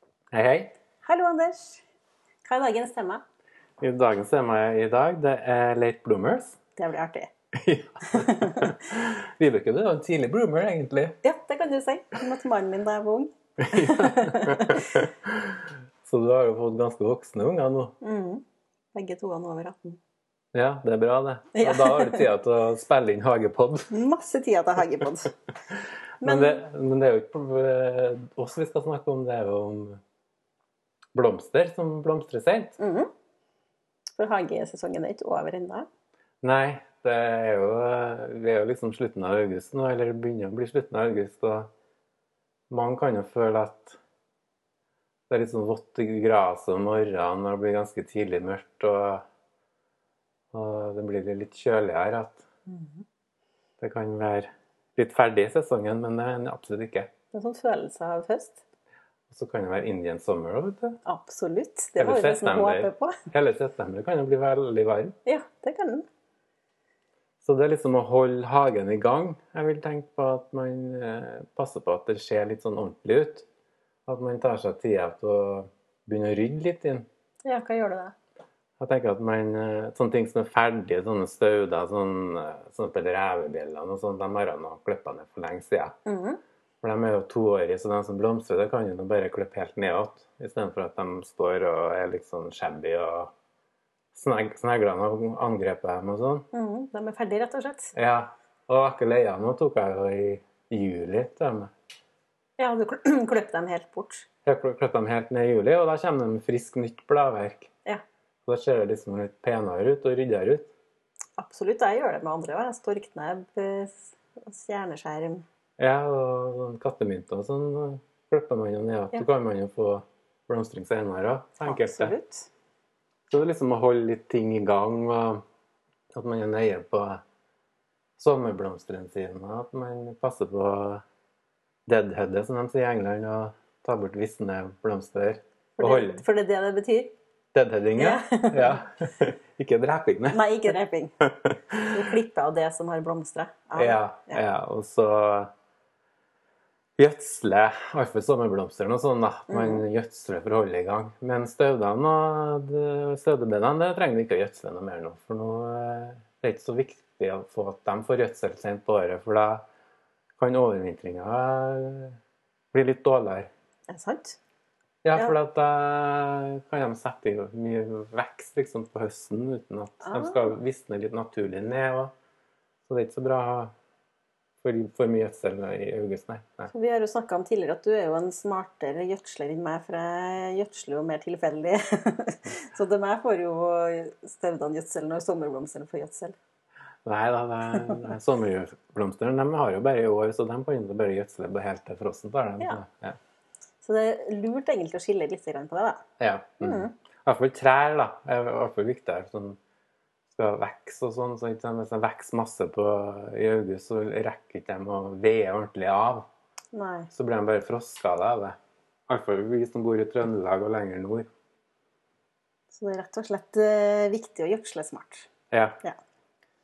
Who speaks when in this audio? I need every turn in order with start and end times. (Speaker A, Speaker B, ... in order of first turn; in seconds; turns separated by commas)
Speaker A: 0.3-0.7, Speaker B: 1.0-1.8, Speaker B: 2.4-3.2, Speaker A: 3.8-6.6, Speaker B: 6.8-7.3, Speaker A: 7.5-11.2, Speaker B: 8.1-8.8, Speaker B: 11.2-15.1, Speaker A: 13.6-17.9, Speaker B: 18.0-18.4, Speaker B: 18.9-20.0, Speaker A: 20.5-23.9, Speaker B: 21.5-22.3, Speaker B: 23.9-25.3, Speaker B: 26.2-26.6, Speaker A: 26.2-30.0, Speaker A: 31.1-32.8, Speaker B: 32.8-33.1, Speaker B: 34.2-35.9, Speaker A: 36.4-41.7, Speaker A: 42.7-44.0, Speaker A: 45.3-49.2, Speaker A: 50.5-52.5, Speaker B: 52.7-53.0, Speaker A: 53.8-57.1, Speaker B: 57.3-58.6, Speaker A: 59.3-61.0, Speaker B: 61.0-63.2, Speaker A: 62.0-65.1, Speaker B: 65.2-66.0, Speaker A: 67.4-73.5, Speaker A: 74.0-77.0, Speaker B: 77.4-78.1, Speaker A: 78.8-86.0, Speaker B: 86.0-86.4, Speaker A: 86.8-93.3, Speaker A: 94.1-96.5, Speaker B: 96.5-97.9, Speaker A: 97.9-101.7, Speaker B: 102.6-104.3, Speaker A: 104.4-107.7, Speaker A: 108.5-110.7, Speaker B: 111.4-115.4, Speaker A: 115.8-122.1, Speaker B: 121.6-122.5, Speaker A: 123.3-125.4, Speaker A: 126.1-127.2, Speaker A: 128.2-131.0, Speaker A: 131.8-136.2, Speaker B: 135.8-137.1, Speaker A: 137.5-142.0, Speaker B: 138.0-138.8, Speaker B: 140.3-141.2, Speaker B: 141.9-144.4, Speaker A: 143.8-145.5, Speaker A: 147.0-159.6, Speaker B: 149.5-149.8, Speaker A: 160.4-162.2, Speaker A: 162.7-163.5, Speaker B: 163.9-164.4, Speaker A: 165.0-172.1, Speaker B: 170.0-170.5, Speaker A: 172.9-173.7, Speaker A: 174.6-176.7, Speaker B: 176.7-186.3, Speaker A: 187.0-193.2, Speaker B: 193.8-196.0, Speaker A: 196.2-199.6, Speaker B: 196.6-196.9, Speaker A: 200.3-206.3, Speaker B: 206.7-207.1, Speaker A: 207.1-208.6, Speaker A: 209.1-211.2, Speaker B: 212.7-215.3, Speaker A: 215.5-215.8